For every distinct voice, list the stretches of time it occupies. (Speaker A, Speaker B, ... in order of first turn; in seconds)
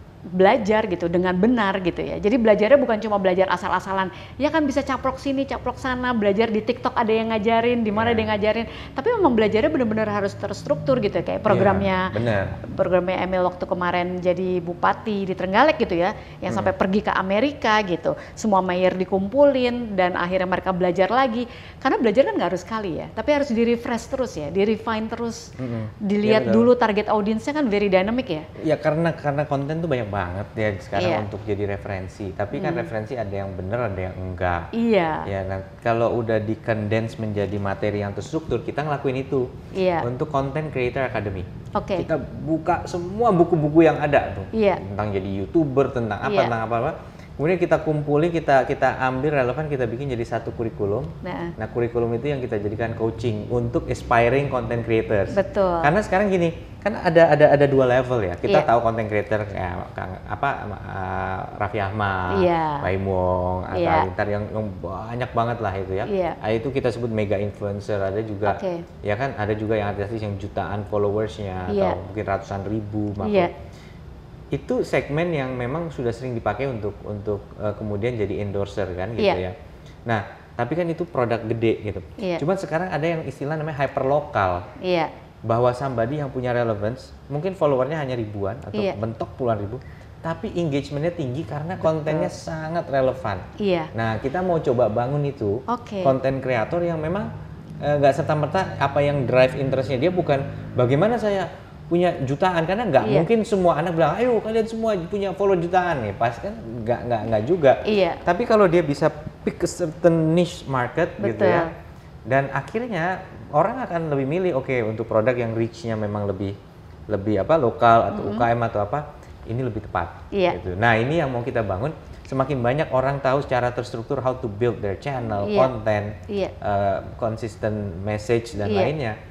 Speaker A: 0.3-25.5, 26.0-28.5, 30.9-31.3, 32.5-32.9, 34.7-35.3, 39.7-40.1, 41.7-42.1, 44.5-44.8, 46.2-46.5, 51.2-51.5, 55.3-55.9, 62.3-62.9, 63.7-64.1, 66.0-66.4, 68.4-68.8, 71.7-72.0, 73.2-73.5, 82.2-82.4, 84.8-85.1, 91.8-92.3, 93.6-93.9, 95.7-96.1, 103.0-103.3, 107.8-108.2, 111.2-111.7, 118.1-118.5, 120.3-120.6, 125.3-125.7, 126.3-126.5, 128.6-128.9
Speaker B: 7.9-8.3, 11.5-12.6, 25.6-26.7, 28.6-34.7, 35.2-39.5, 40.0-73.5, 74.5-79.5, 80.0-84.7, 85.4-97.3, 97.8-111.7, 112.3-116.5, 117.1-129.2